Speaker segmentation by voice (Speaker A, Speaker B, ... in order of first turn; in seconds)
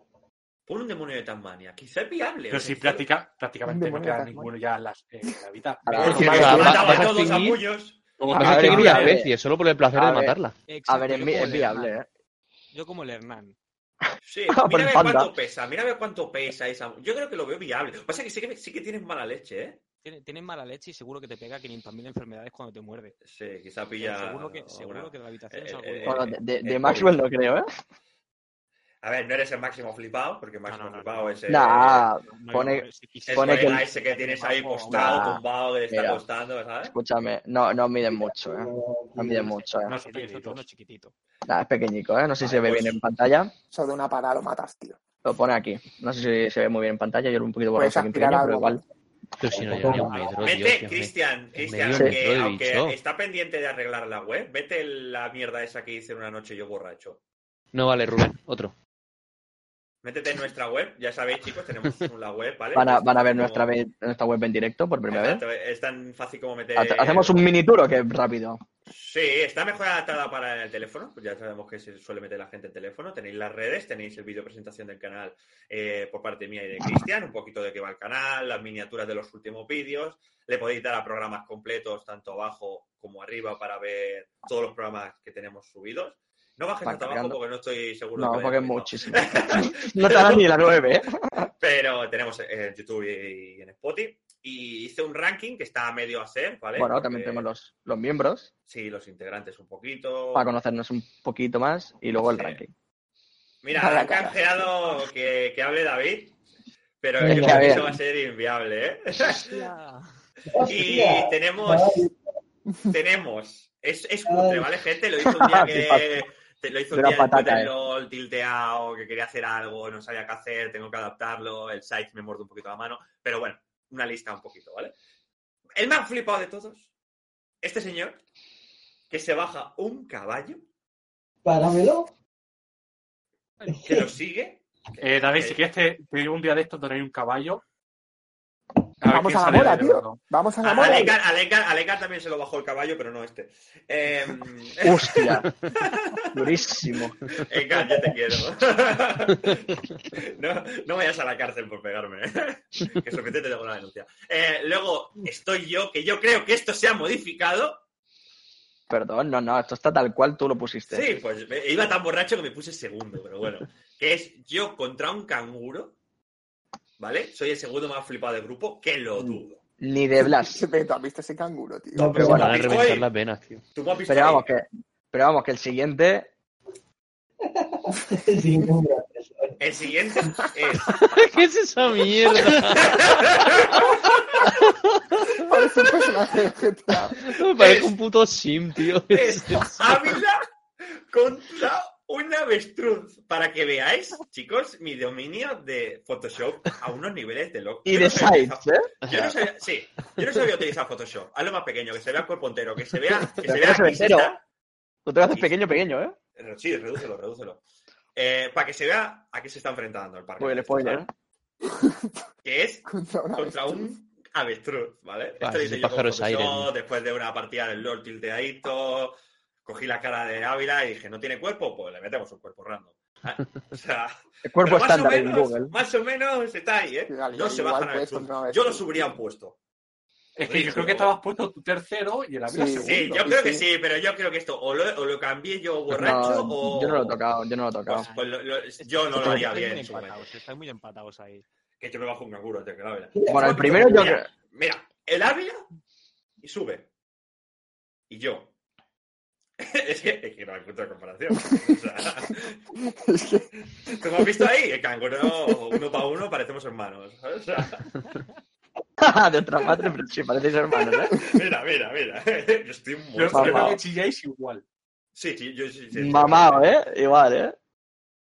Speaker A: 0.7-3.1, 5.9-8.0, 14.2-19.8, 23.2-27.3, 29.0-32.1, 33.3-37.0, 42.4-43.0, 50.2-57.2, 60.0-63.7, 65.1-67.5, 68.9-90.9, 91.6-97.5, 98.7-100.5, 102.1-102.6, 103.6-106.4, 107.0-109.7, 110.7-112.1, 112.9-125.0, 125.8-126.9, 127.6-128.2, 129.1-130.6, 133.8-135.6, 140.6-146.2, 147.4-157.8, 160.9-166.0, 167.0-169.6, 172.0-173.1, 173.7-174.5, 179.6-181.4, 182.7-184.5, 187.6-187.9, 189.1-204.4, 205.3-205.6, 206.4-207.6, 208.2-211.1, 212.4-229.6, 230.4-231.2, 232.8-237.2, 237.9-240.3, 241.8-245.6, 246.4-246.9, 248.1-248.5, 249.6-252.6, 253.9-257.9, 261.2-263.8, 265.1-266.7
Speaker B: 2.5-7.1, 8.2-9.3, 39.9-40.6, 135.0-137.6, 139.0-140.2, 230.4-233.2, 263.1-264.6
Speaker C: 3.6-4.5, 43.7-45.0, 47.8-48.8, 103.7-104.7, 139.1-141.2, 170.2-172.3, 185.5-187.3, 211.7-212.0, 212.9-213.9, 227.1-229.2, 232.5-233.7, 252.8-253.5, 254.2-254.4
Speaker D: 5.8-7.1, 8.3-9.3, 9.9-12.1, 14.5-15.3, 26.1-27.7, 31.5-33.8, 34.9-36.2, 36.9-40.0, 41.5-43.5, 45.2-48.8, 51.9-52.2, 62.7-65.5, 66.8-68.6, 86.8-87.4, 88.2-91.5, 96.8-98.5, 100.3-102.7, 107.2-107.9, 115.2-116.2, 116.9-117.7, 144.8-145.5, 146.3-147.2, 158.9-161.2, 169.2-170.6, 172.2-172.5, 174.1-176.3, 197.9-199.2, 203.3-204.4, 205.1-206.2, 210.4-211.1, 224.4-225.7, 235.9-238.1, 239.2-239.5, 243.3-244.3, 259.0-261.1, 263.3-263.8, 265.9-267.6
Speaker E: 6.0-7.6, 8.3-10.6, 49.4-53.0, 57.7-58.7, 172.2-173.6, 180.9-185.4, 187.1-190.0, 215.4-216.7
Speaker F: 10.7-12.0, 12.7-13.6, 20.1-23.2, 24.0-26.4, 30.7-31.6, 32.2-35.4, 39.3-41.1, 109.2-110.1, 133.6-133.9, 237.9-241.4
Speaker G: 38.0-39.5, 49.5-50.2, 107.2-108.0, 110.5-112.2, 114.3-114.7, 131.4-132.1, 133.7-134.1, 171.9-172.7, 177.4-179.6, 243.1-244.1